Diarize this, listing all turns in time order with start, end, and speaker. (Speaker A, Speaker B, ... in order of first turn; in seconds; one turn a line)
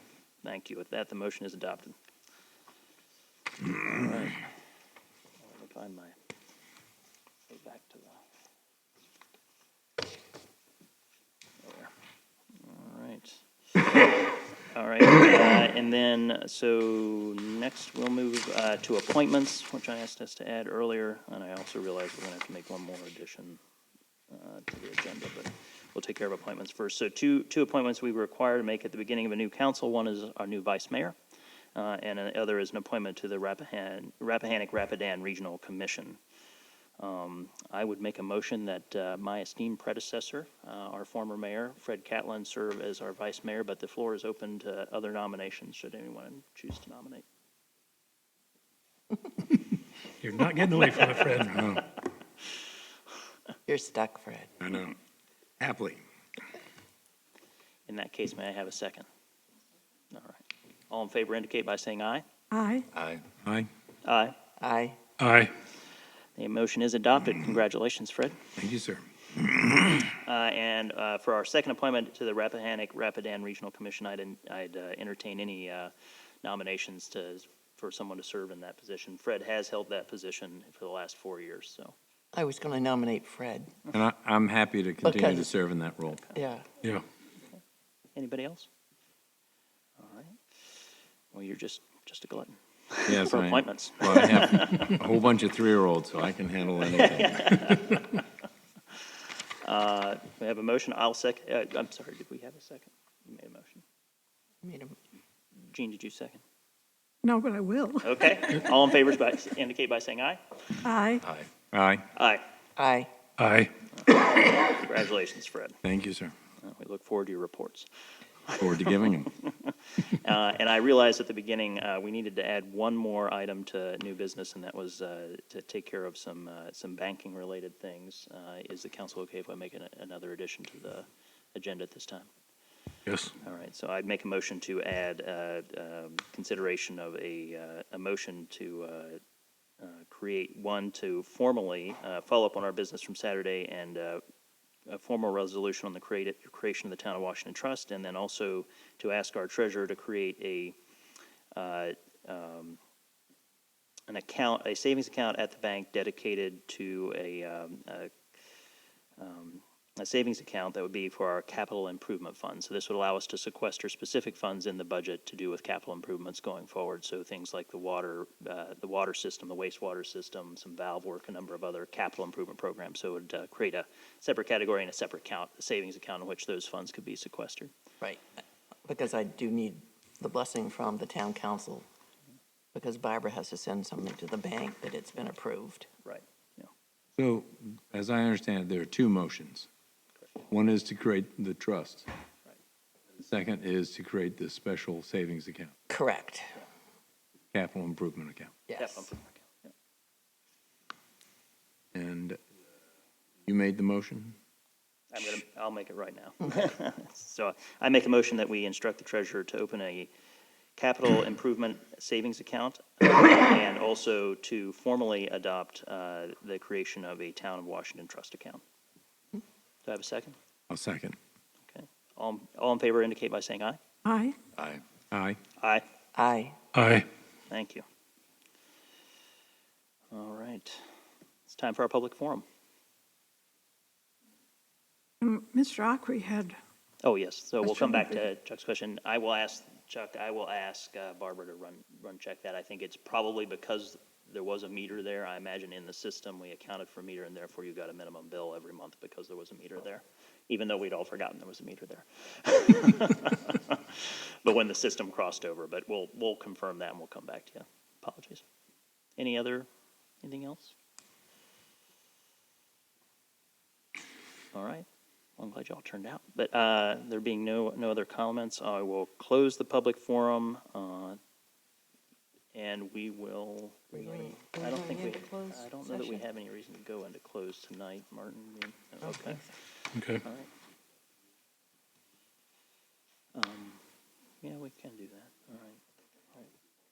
Speaker A: 0.4-1.9
Speaker A: 3.6-4.5
Speaker A: 5.4-6.1
Speaker A: 7.5-8.2
Speaker A: 11.6-11.9
Speaker A: 12.6-14.1
Speaker A: 14.7-23.6
Speaker A: 24.3-31.2
Speaker A: 31.7-36.2
Speaker A: 37.0-47.2
Speaker B: 50.2-51.6
Speaker A: 50.8-51.8
Speaker C: 51.4-51.9
Speaker D: 53.7-54.5
Speaker C: 54.6-55.0
Speaker C: 55.6-56.0
Speaker A: 57.9-59.1
Speaker A: 60.1-62.2
Speaker E: 62.5-62.9
Speaker C: 62.9-63.7
Speaker A: 64.0-64.3
Speaker D: 64.6-65.0
Speaker B: 65.2-65.5
Speaker A: 66.3-68.5
Speaker C: 68.6-70.0
Speaker A: 70.0-75.9
Speaker A: 76.4-81.9
Speaker D: 82.3-83.7
Speaker C: 83.9-86.2
Speaker D: 85.0-85.5
Speaker D: 86.3-86.7
Speaker A: 88.2-88.7
Speaker A: 90.0-90.4
Speaker A: 91.3-95.1
Speaker C: 93.1-97.6
Speaker A: 96.8-98.3
Speaker A: 99.6-103.8
Speaker D: 104.6-104.9
Speaker A: 105.7-106.4
Speaker E: 107.2-108.3
Speaker A: 108.0-110.4
Speaker E: 110.8-111.2
Speaker C: 111.2-112.0
Speaker A: 112.1-112.4
Speaker D: 112.8-113.1
Speaker B: 113.4-113.7
Speaker A: 114.0-115.8
Speaker C: 115.8-116.3
Speaker A: 116.6-117.9
Speaker A: 118.5-132.3
Speaker C: 118.5-119.3
Speaker B: 133.1-133.3
Speaker A: 133.4-139.2
Speaker A: 139.8-144.2
Speaker A: 144.9-150.8
Speaker A: 151.5-152.8
Speaker A: 154.1-158.1
Speaker A: 159.2-177.7
Speaker D: 178.8-181.8
Speaker D: 182.7-185.9
Speaker A: 186.0-186.7
Speaker C: 187.2-189.7
Speaker C: 190.5-192.1
Speaker C: 193.2-195.7
Speaker D: 195.9-196.6
Speaker C: 197.5-198.6
Speaker D: 198.7-199.1
Speaker A: 198.8-199.7
Speaker C: 201.9-202.4
Speaker C: 203.4-204.3
Speaker A: 205.1-210.1
Speaker A: 210.8-218.6
Speaker A: 219.8-220.3
Speaker C: 220.7-221.2
Speaker A: 221.7-223.8
Speaker E: 224.0-224.4
Speaker C: 224.6-225.4
Speaker A: 225.6-225.8
Speaker D: 226.1-226.6
Speaker B: 226.7-227.1
Speaker A: 227.5-227.8
Speaker A: 230.1-230.8
Speaker A: 231.5-232.4
Speaker E: 235.2-236.6
Speaker A: 237.0-258.4
Speaker E: 237.6-238.1
Speaker A: 259.2-259.7
Speaker A: 260.2-260.7
Speaker A: 264.5-264.9
Speaker A: 265.4-271.2
Speaker A: 272.5-280.5
Speaker D: 273.9-276.2
Speaker D: 279.0-279.5
Speaker B: 279.9-280.2
Speaker A: 283.3-283.8
Speaker A: 284.4-285.8